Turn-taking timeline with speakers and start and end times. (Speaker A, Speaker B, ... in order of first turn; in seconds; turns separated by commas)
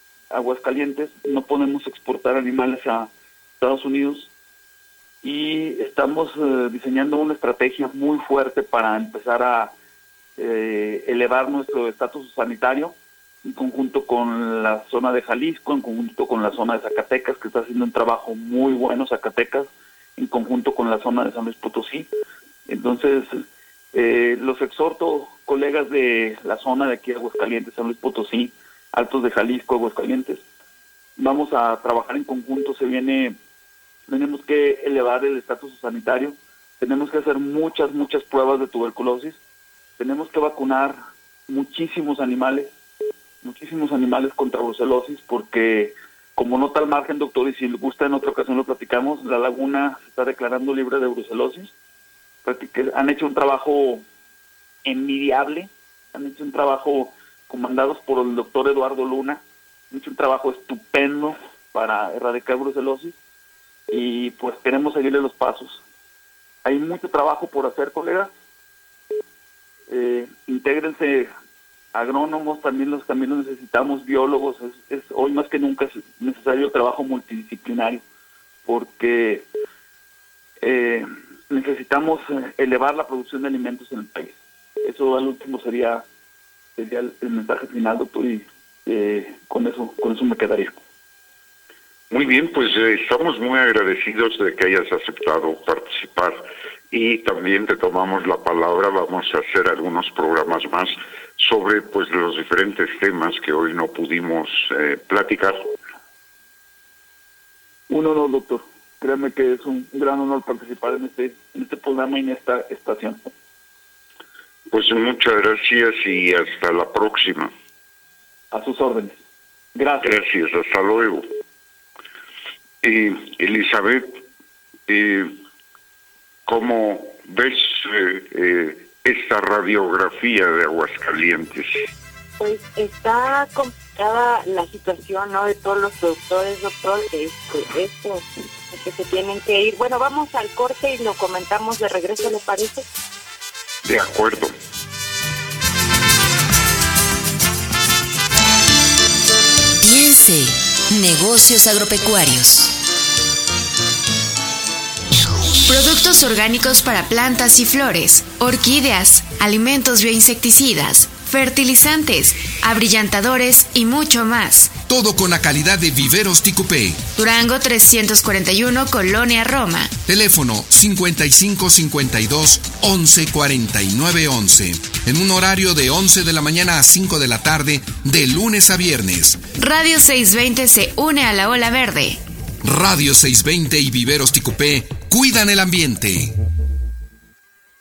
Speaker A: 0.3-4.3, Speaker A: 5.2-9.7, Speaker A: 10.4-22.1, Speaker A: 22.7-30.4, Speaker A: 31.2-33.4, Speaker A: 34.1-39.4, Speaker A: 40.0-42.7, Speaker A: 43.4-51.7, Speaker A: 52.5-54.0, Speaker A: 54.9-63.1, Speaker A: 63.9-65.8, Speaker A: 66.6-68.3, Speaker A: 69.9-71.3, Speaker A: 71.9-78.0, Speaker A: 78.7-79.5, Speaker A: 80.6-86.0, Speaker A: 86.8-90.8, Speaker B: 92.1-105.7, Speaker A: 107.9-113.2, Speaker B: 114.7-117.5, Speaker A: 118.5-119.2, Speaker A: 119.7-120.1, Speaker B: 120.0-121.3, Speaker B: 122.8-124.2, Speaker B: 124.9-125.4, Speaker B: 126.5-131.8, Speaker C: 132.4-142.8, Speaker B: 143.8-144.6, Speaker D: 149.8-152.8, Speaker E: 155.7-164.7, Speaker F: 164.9-167.1, Speaker E: 167.1-169.9, Speaker F: 170.1-179.5, Speaker E: 179.5-182.2, Speaker F: 182.6-186.3